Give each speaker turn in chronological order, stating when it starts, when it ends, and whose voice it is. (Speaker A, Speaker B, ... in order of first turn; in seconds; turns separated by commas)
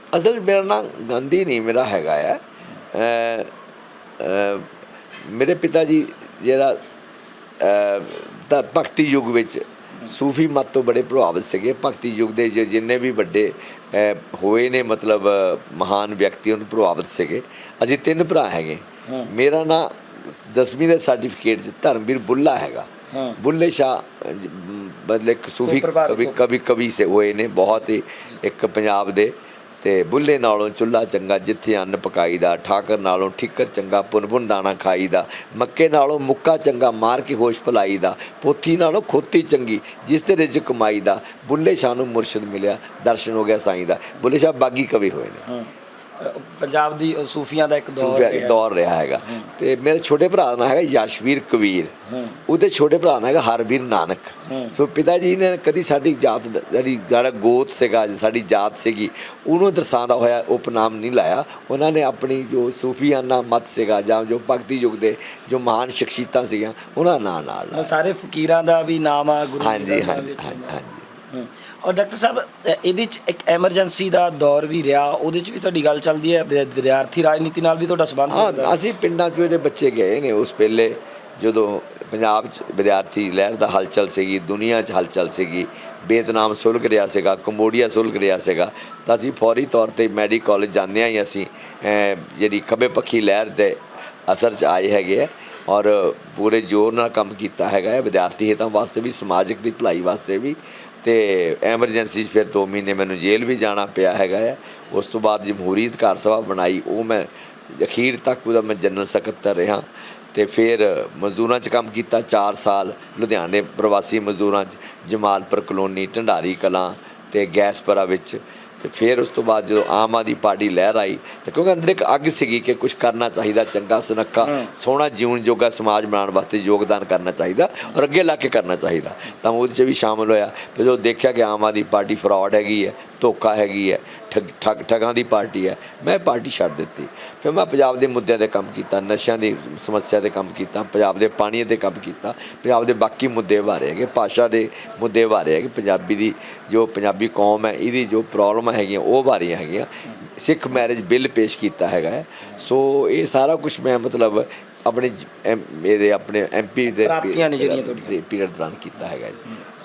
Speaker A: 0.1-2.4, Speaker A: 2.9-3.5, Speaker A: 4.2-4.7, Speaker A: 5.2-6.8, Speaker A: 7.6-45.5, Speaker B: 23.1-23.4, Speaker B: 25.6-26.4, Speaker B: 45.5-48.6, Speaker A: 47.9-52.0, Speaker B: 52.1-52.4, Speaker A: 52.5-67.9, Speaker B: 54.5-54.8, Speaker B: 67.7-70.8, Speaker A: 69.6-71.1, Speaker B: 71.3-78.7, Speaker A: 78.3-159.5, Speaker B: 156.9-158.1